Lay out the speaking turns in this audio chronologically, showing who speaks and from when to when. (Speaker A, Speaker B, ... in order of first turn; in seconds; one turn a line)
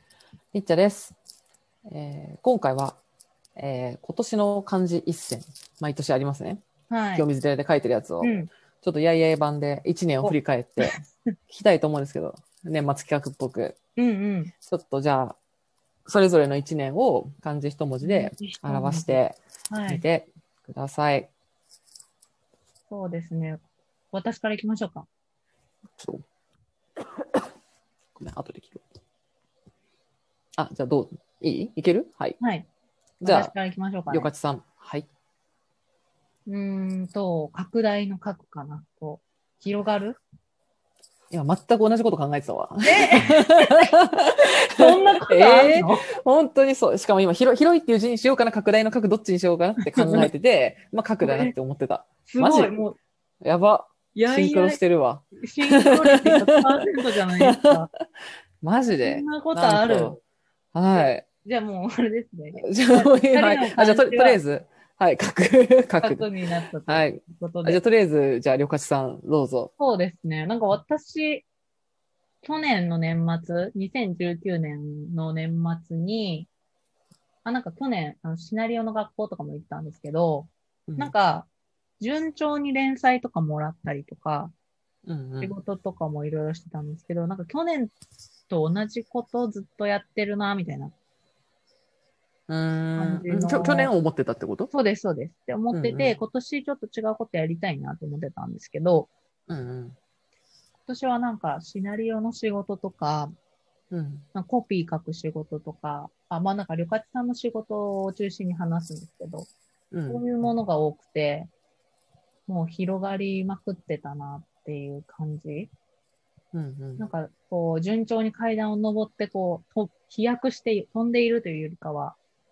Speaker A: 0.5-1.1
Speaker A: 1.9-3.0
Speaker A: 3.5-6.6
Speaker B: 6.9-7.2
Speaker A: 7.1-10.9
Speaker B: 8.2-8.5
Speaker B: 10.2-11.0
Speaker A: 11.5-13.8
Speaker B: 14.0-14.5
Speaker A: 14.6-15.4
Speaker A: 16.1-21.3
Speaker B: 18.0-20.0
Speaker B: 22.9-25.1
Speaker A: 26.0-26.2
Speaker A: 28.1-28.8
Speaker A: 30.6-32.4
Speaker B: 32.4-32.7
Speaker A: 33.2-33.5
Speaker B: 33.2-34.3
Speaker A: 34.1-35.1
Speaker B: 36.5-40.2
Speaker A: 41.3-52.7
Speaker B: 42.8-43.9
Speaker B: 44.7-46.1
Speaker B: 49.8-50.3
Speaker B: 51.2-51.5
Speaker B: 52.2-53.0
Speaker A: 53.4-56.6
Speaker B: 54.1-54.8
Speaker B: 55.4-57.9
Speaker A: 57.4-58.0
Speaker A: 58.6-60.2
Speaker B: 59.0-60.2
Speaker A: 60.7-61.2
Speaker B: 60.9-64.4
Speaker A: 62.6-66.3
Speaker B: 66.0-67.8
Speaker A: 66.9-69.7
Speaker B: 69.8-71.5
Speaker B: 72.4-76.5
Speaker B: 77.4-81.5
Speaker A: 80.9-81.1
Speaker B: 82.0-84.5
Speaker A: 85.0-85.5
Speaker B: 85.4-87.9
Speaker B: 88.5-90.9
Speaker A: 92.5-94.7
Speaker B: 93.0-93.9
Speaker B: 94.7-99.1
Speaker A: 95.7-96.2
Speaker A: 99.5-100.0
Speaker B: 100.8-103.3
Speaker A: 103.9-104.2
Speaker B: 104.3-109.5
Speaker A: 109.9-110.3
Speaker B: 110.1-111.5
Speaker B: 112.5-115.7
Speaker A: 116.5-117.0
Speaker B: 117.0-122.2